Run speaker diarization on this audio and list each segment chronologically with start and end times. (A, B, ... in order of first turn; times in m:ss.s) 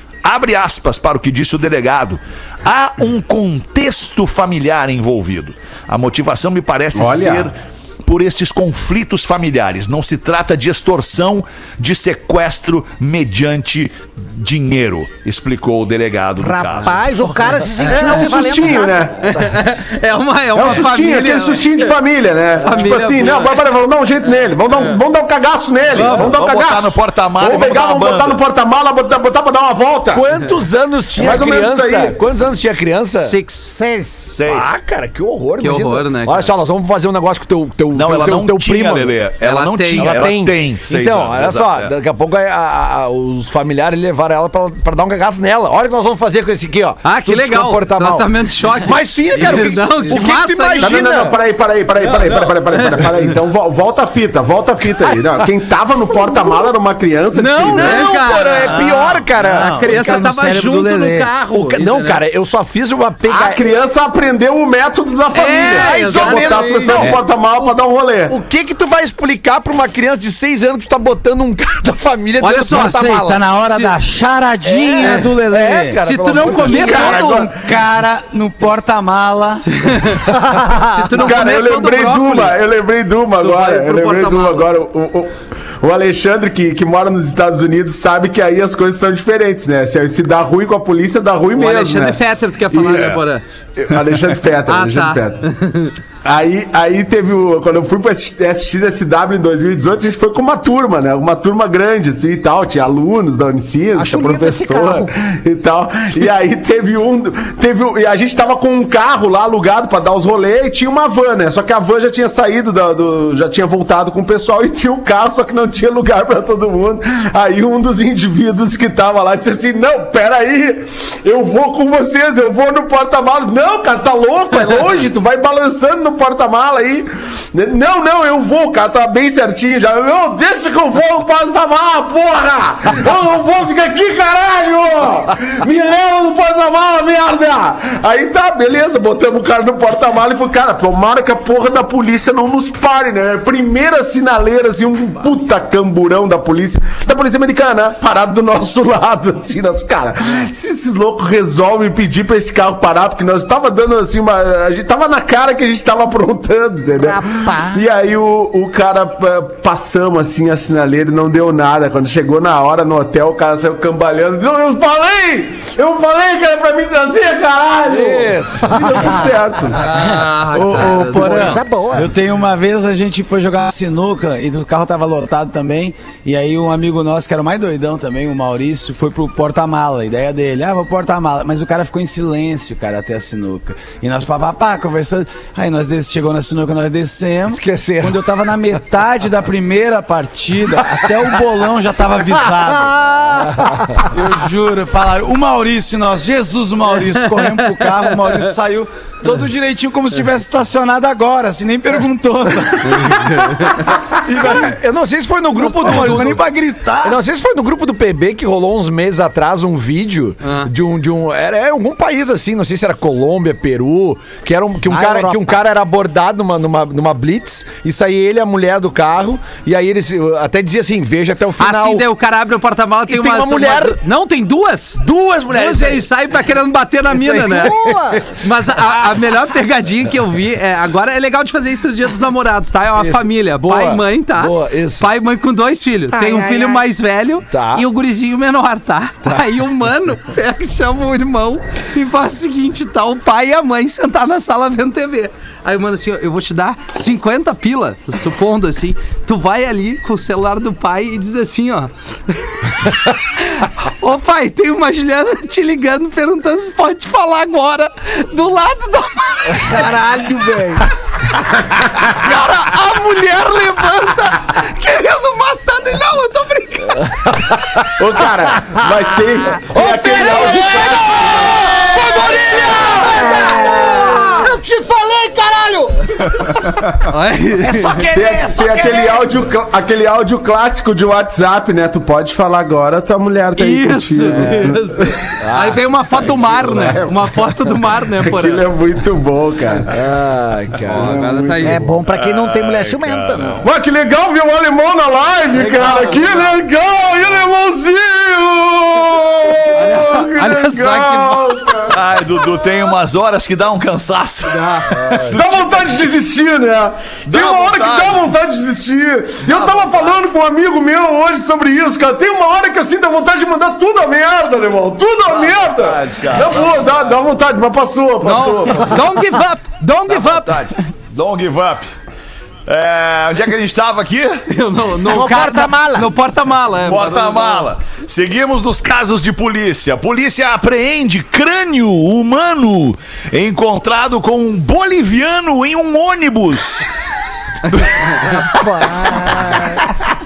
0:00.2-0:17.2 A
0:06.9-0:07.5 B
0:16.4-0:19.1 C
0:17.8-0:18.3 D
0:17.8-0:19.2 B
0:19.2-0:22.0 D
0:20.5-0:30.2 B
0:22.6-0:23.7 D
0:24.7-0:25.0 D
0:25.9-0:26.4 D
0:26.1-0:28.4 A
0:30.1-0:33.4 E
0:31.1-0:32.2 B
0:33.1-0:33.7 D
0:33.6-0:34.3 C
0:34.3-0:34.7 A
0:34.4-0:39.2 E
0:35.6-0:36.5 D
0:37.9-0:41.9 A
0:39.4-0:40.3 D
0:39.9-0:51.4 E
0:47.0-0:51.1 D
0:50.8-0:58.1 B
0:52.0-0:53.2 D
0:57.3-0:58.9 D
0:57.6-1:00.1 E
0:58.7-1:01.3 F
0:59.5-1:02.2 D
1:01.5-1:03.7 E
1:03.2-1:08.3 B
1:05.3-1:07.1 D
1:05.6-1:07.7 E
1:08.3-1:13.6 E
1:12.4-1:13.1 D
1:12.7-1:19.7 F
1:13.6-1:13.9 D
1:14.6-1:17.2 E
1:15.0-1:15.3 D
1:16.0-1:17.5 D
1:16.9-1:17.4 B
1:19.7-1:22.7 D
1:20.6-1:21.0 C
1:21.2-1:32.2 B
1:23.4-1:24.7 D
1:31.5-1:33.4 D
1:32.7-1:33.2 B
1:33.8-1:35.4 B
1:34.7-1:35.9 D
1:36.2-2:49.8 B
1:44.0-1:45.1 C
2:37.0-2:37.8 C
2:47.9-2:49.2 E
2:49.8-2:51.6 D
2:49.9-3:12.9 F
2:51.1-2:52.1 C
3:07.5-3:08.2 E
3:12.7-3:14.0 C
3:13.5-3:13.8 E
3:14.1-3:23.6 F
3:22.8-3:23.8 D
3:24.2-3:26.5 E
3:24.3-3:24.7 F
3:25.6-3:27.2 F
3:27.0-3:42.0 E
3:30.4-3:30.7 D
3:34.9-3:35.5 C
3:41.6-4:20.8 D
3:43.1-3:44.0 E
3:45.0-3:46.1 E
3:47.1-3:47.9 E
3:47.4-3:48.3 C
3:53.0-3:55.1 E
3:56.1-3:56.8 C
3:57.5-3:57.8 E
4:22.0-4:27.9 D
4:26.9-4:27.8 E
4:28.0-4:31.7 B
4:29.8-4:36.4 C
4:29.8-4:30.3 F
4:30.1-4:30.7 E
4:30.3-4:34.2 D
4:32.4-4:32.9 E
4:37.1-4:38.1 D
4:37.6-4:39.3 F
4:38.1-4:45.2 B
4:43.6-4:48.6 D
4:45.4-4:46.8 E
4:46.6-4:47.2 B
4:48.2-4:49.9 B
4:49.9-4:51.4 E
4:50.9-4:51.8 D
4:51.0-4:51.8 B
4:51.6-4:53.6 C
4:52.1-4:53.7 A
4:53.6-5:02.0 B
4:55.6-4:56.1 F
4:59.7-5:01.7 D
5:01.9-5:06.0 A
5:04.5-5:05.0 D
5:05.3-5:19.1 B
5:07.2-5:08.3 A
5:15.3-5:17.2 A
5:18.2-5:20.6 D
5:20.1-5:21.9 A
5:22.7-5:24.4 A
5:24.5-5:27.7 D
5:25.1-5:26.1 C
5:26.8-5:36.8 A
5:38.2-5:39.9 C